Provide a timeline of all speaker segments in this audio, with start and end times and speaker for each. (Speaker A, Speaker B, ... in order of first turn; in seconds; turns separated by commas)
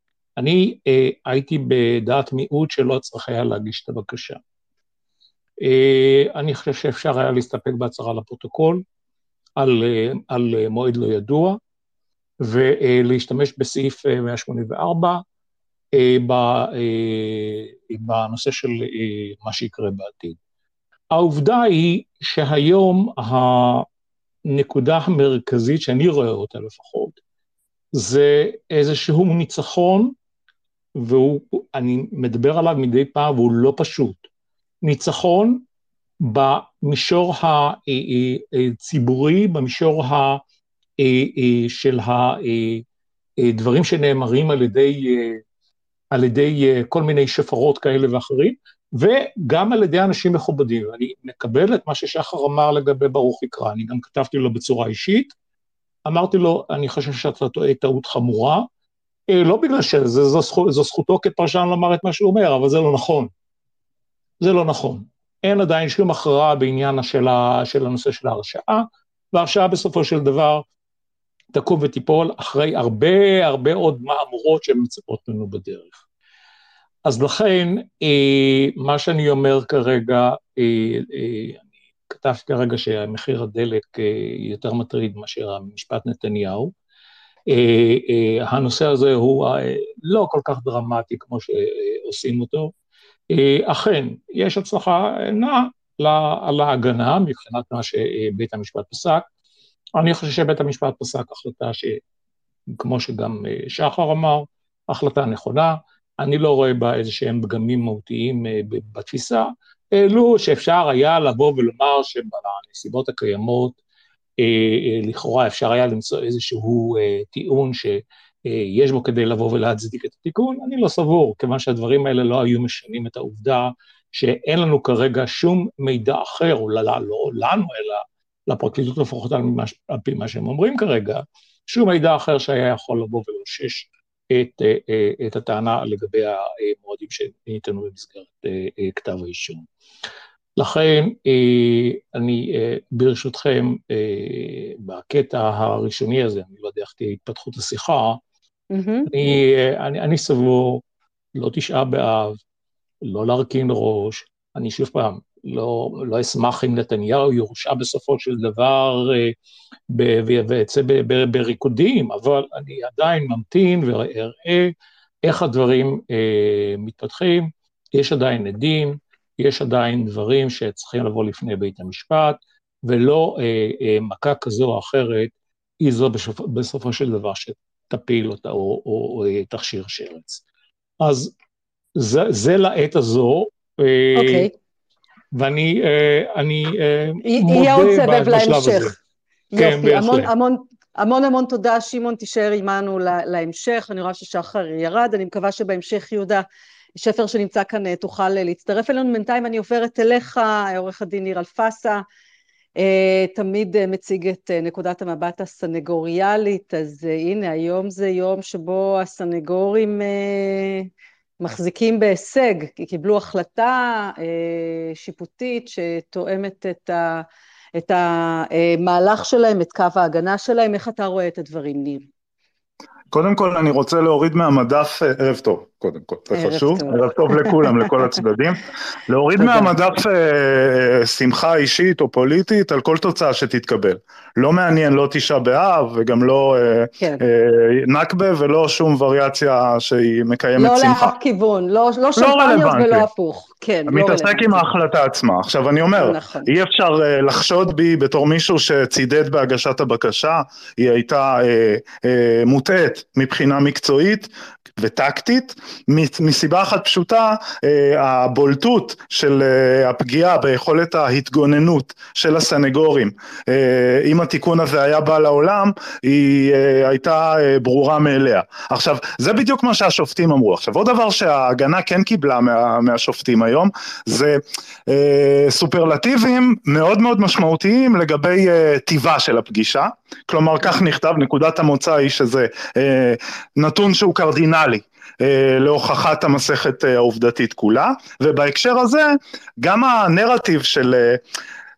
Speaker A: 0.4-4.4, Speaker A: 5.6-8.8, Speaker A: 9.6-11.6, Speaker A: 12.4-15.2, Speaker A: 15.9-20.4, Speaker A: 21.1-23.9, Speaker A: 24.5-27.2, Speaker A: 27.9-30.1, Speaker A: 31.0-34.2, Speaker A: 34.8-35.6, Speaker A: 36.2-40.4, Speaker A: 41.0-42.8, Speaker A: 43.4-45.4, Speaker A: 46.1-55.3, Speaker A: 56.0-58.7, Speaker A: 59.3-63.3, Speaker A: 64.4-70.6, Speaker A: 71.5-76.0, Speaker A: 77.0-86.7, Speaker A: 87.5-92.7, Speaker A: 93.3-99.2, Speaker A: 100.0-102.0, Speaker A: 102.7-113.8, Speaker A: 114.4-139.6, Speaker A: 140.6-148.2, Speaker B: 148.7-149.1, Speaker A: 149.1-150.8, Speaker A: 151.3-152.3, Speaker A: 153.0-159.3, Speaker A: 159.9-180.4, Speaker A: 181.0-181.3, Speaker A: 181.9-184.5, Speaker B: 184.1-184.5, Speaker A: 185.3-188.9, Speaker B: 187.2-188.9, Speaker B: 189.5-202.0, Speaker A: 189.6-190.3, Speaker B: 202.8-210.9, Speaker B: 211.4-222.1, Speaker C: 223.1-241.1, Speaker B: 226.3-227.9, Speaker B: 229.4-229.7, Speaker B: 240.6-244.7, Speaker C: 242.2-243.1, Speaker C: 243.9-291.2, Speaker B: 246.0-246.5